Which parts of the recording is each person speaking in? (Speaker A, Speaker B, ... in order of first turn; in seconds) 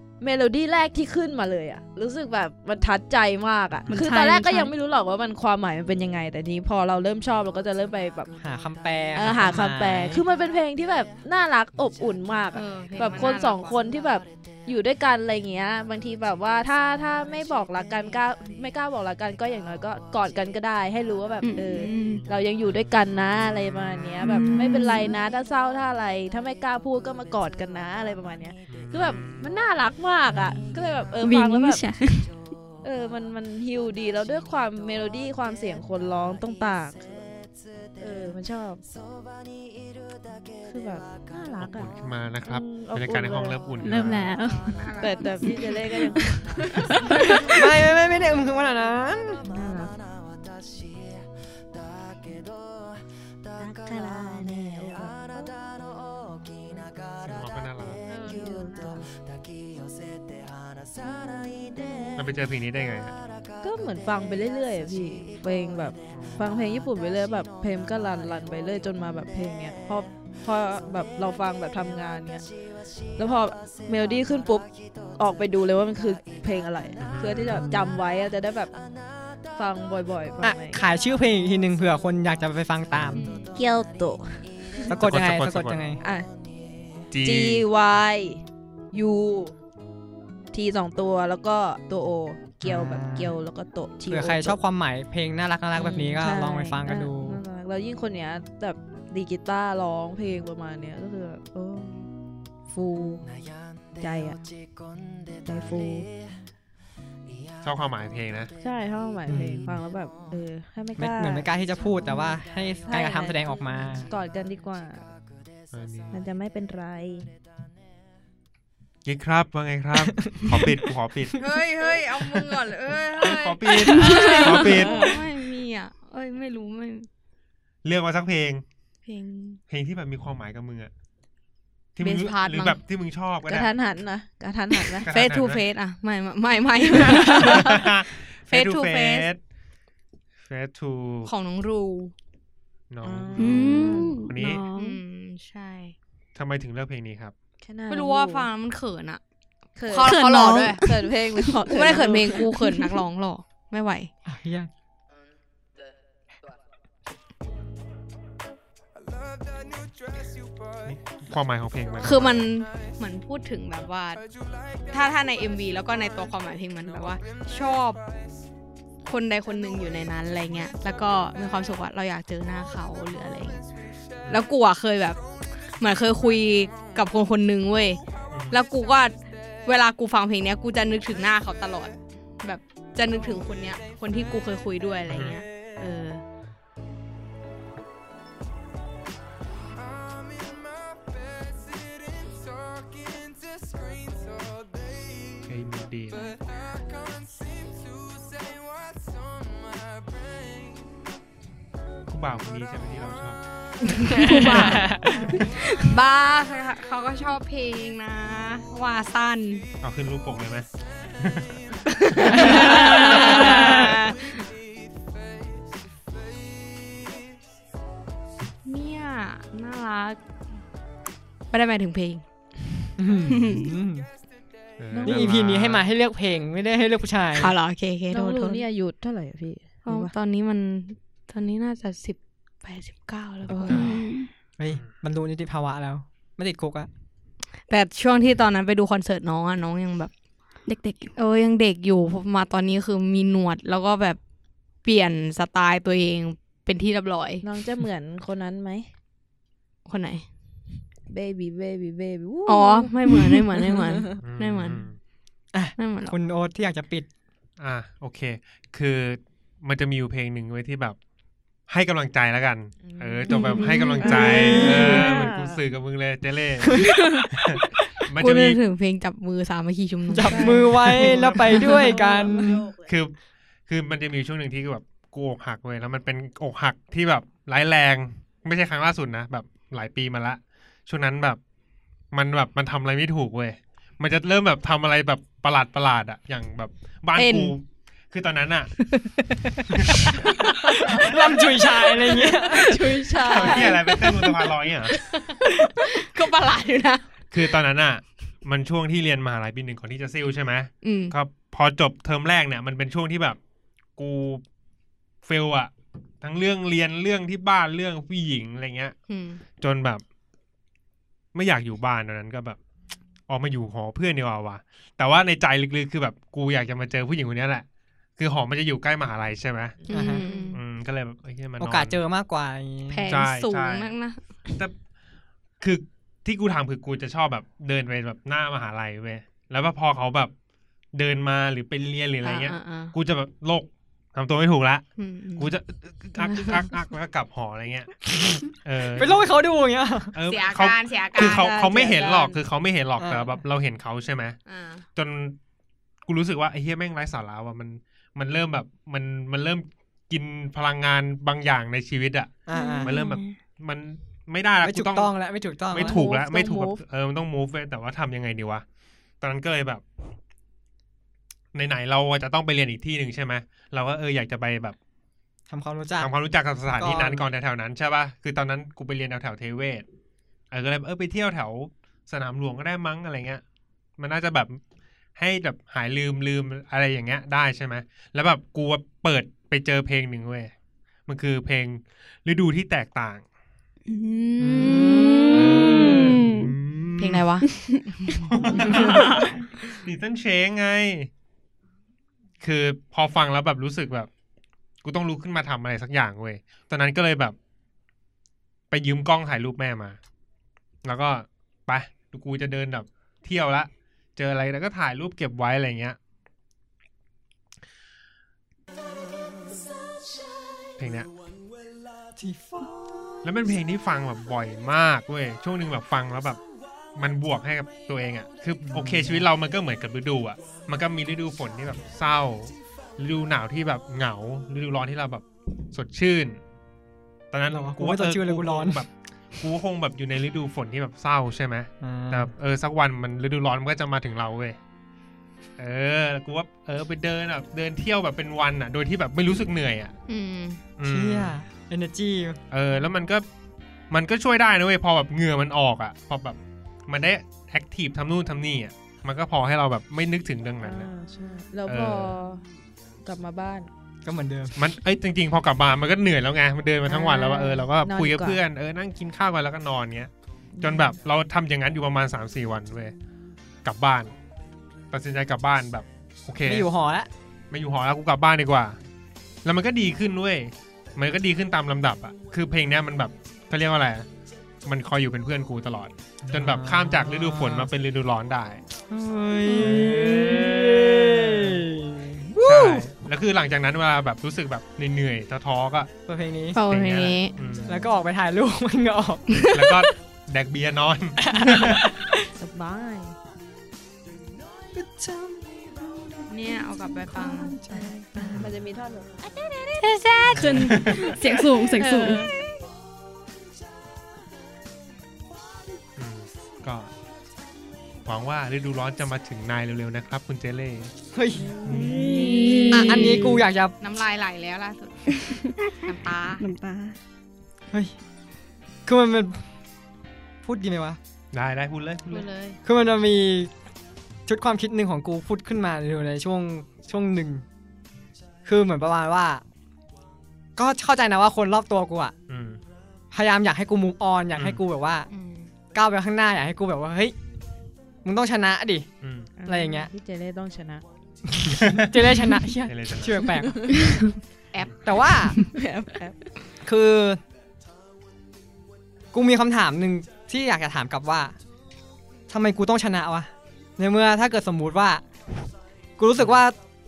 Speaker A: 0.2-8.3, 9.1-31.8, 32.8-37.4, 38.0-38.8, 40.6-41.9, 42.4-43.6, 45.0-47.4, 49.4-50.0, 53.6-55.6, 56.5-56.9, 58.2-59.1, 61.0-62.2, 63.6-72.5, 73.2-78.8, 79.5-80.8, 83.5-84.8, 86.0-86.3, 87.2-89.5, 90.5-94.6, 95.8-102.1, 102.7-103.3, 104.0-104.4, 105.4-106.1, 108.6-115.1, 116.1-117.3, 123.9-125.2, 133.5-135.1, 137.1-137.7, 143.0-144.2, 147.6-148.5, 149.8-152.5, 205.1-205.4, 224.9-225.3, 228.1-230.1, 233.5-233.8, 247.4-248.9, 251.1-254.1, 262.8-263.6, 264.1-265.6, 270.2-272.9, 292.3-293.8, 319.9-320.5, 341.6-342.3, 355.7-356.8, 450.6-452.5, 453.0-453.7, 456.8-458.4, 460.6-460.9, 487.4-487.9, 492.3-493.2, 497.1-499.3, 511.3-512.5, 539.4-540.8, 545.5-546.3
Speaker B: 3.9-4.7, 21.4-22.2, 24.2-25.1, 31.2-32.4, 43.8-44.9, 45.4-47.5, 124.1-124.4, 143.3-145.0, 150.0-151.6, 152.3-152.7, 223.3-223.7, 233.7-234.3, 240.7-241.1, 263.4-264.4, 352.5-353.4, 383.9-386.5, 387.4-388.2, 479.5-480.1, 499.8-502.3, 511.6-513.4, 515.1-517.0
Speaker C: 8.4-10.2, 47.5-49.4, 80.4-83.2, 84.9-86.0, 92.6-93.3, 94.1-97.4, 109.3-109.8, 111.0-114.1, 154.2-154.7, 204.7-205.2, 223.0-224.1, 225.0-227.5, 234.6-236.9, 255.5-257.1, 264.0-265.1, 266.6-266.9, 270.1-272.7, 290.8-292.6, 319.9-320.2, 321.6-323.1, 338.9-340.1, 343.0-343.3, 352.5-352.9, 354.6-356.0, 365.5-366.1, 366.8-367.3, 384.4-386.2, 412.2-412.7, 418.7-419.2, 427.5-428.8, 431.8-432.3, 440.8-442.4, 454.0-454.6, 466.4-467.1, 476.2-477.7, 478.9-482.8, 486.1-486.6, 487.7-489.3, 491.2-492.3, 494.7-498.4, 511.1-511.5, 512.7-513.8, 518.9-519.5, 520.4-521.0, 522.6-523.5, 524.3-527.4, 528.4-529.4, 530.6-532.1, 533.1-535.1, 535.7-537.1, 538.0-538.9, 539.5-539.9, 541.3-543.6, 544.8-545.4, 546.6-547.2, 549.1-551.3, 552.3-555.0, 556.0-556.5
Speaker D: 12.5-13.7, 44.7-45.7, 58.1-59.0, 83.1-83.5, 121.4-127.1, 129.1-129.6, 132.0-132.8, 134.9-138.0, 138.5-139.3, 141.2-142.1, 144.7-145.9, 147.9-149.2, 149.8-150.8, 151.7-154.1, 162.0-164.2, 164.9-168.0, 169.0-173.6, 174.3-175.2, 175.8-186.2, 203.9-209.7, 211.9-214.4, 218.6-220.2, 221.5-222.2, 227.3-228.6, 229.8-234.0, 237.7-240.1, 241.2-244.2, 244.8-247.4, 249.8-250.2, 252.4-254.9, 255.8-256.1, 263.3-263.8, 268.2-271.7, 287.1-287.5, 292.6-297.6, 300.8-301.1, 309.1-309.4, 319.9-320.6, 322.9-324.2, 332.2-332.9, 335.0-335.6, 336.2-336.7, 340.2-342.4, 344.5-344.8, 387.0-389.2, 440.1-440.6, 486.5-487.3, 489.3-489.9, 496.3-497.6, 499.7-501.2, 501.8-502.3, 511.9-516.4, 522.1-522.6, 535.1-535.5, 544.5-545.4
Speaker E: 28.7-29.5, 41.6-44.3, 57.2-58.0, 62.1-63.2, 66.1-66.5, 77.0-77.7, 82.9-83.2, 84.9-85.8, 87.1-87.6, 107.6-108.5, 115.7-116.2, 119.0-121.4, 123.2-125.1, 127.8-128.6, 129.7-130.9, 131.9-133.7, 135.0-135.6, 137.0-139.4, 140.4-141.3, 142.9-144.6, 146.3-147.3, 160.8-162.5, 184.1-184.4, 185.1-185.4, 195.4-196.4, 202.1-205.6, 209.8-211.6, 212.2-213.9, 224.8-225.9, 233.5-234.0, 254.2-255.0, 257.6-261.0, 261.7-268.6, 272.9-273.1, 273.7-281.4, 282.1-288.9, 289.7-290.4, 290.9-291.2, 293.2-295.0, 297.3-303.4, 303.9-304.4, 305.2-308.9, 309.6-310.0, 311.3-312.6, 313.3-317.6, 318.2-319.9, 320.5-322.0, 323.1-323.9, 324.5-324.7, 325.6-330.3, 330.9-334.9, 335.4-339.2, 340.1-344.4, 344.9-345.4, 346.0-355.1, 355.7-358.6, 359.2-359.8, 361.5-364.8, 366.0-369.8, 370.5-373.4, 374.0-374.6, 375.1-380.5, 381.1-383.2, 385.3-387.3, 388.2-391.1, 392.4-394.1, 394.8-397.4, 398.7-400.0, 400.8-406.0, 410.8-411.1, 413.2-416.4, 416.9-426.4, 427.3-434.6, 435.6-439.9, 440.8-441.3, 442.5-443.2, 443.9-450.9, 451.6-452.1, 454.5-462.9, 463.6-464.1, 464.9-466.7, 467.5-468.8, 469.4-474.1, 474.6-478.6, 479.5-481.6, 482.4-485.9, 486.6-487.8, 489.5-491.9, 498.3-498.6, 500.3-501.1, 505.9-506.9, 508.0-510.9, 511.6-512.0, 521.3-522.2, 532.3-532.6, 539.0-539.3, 542.6-543.6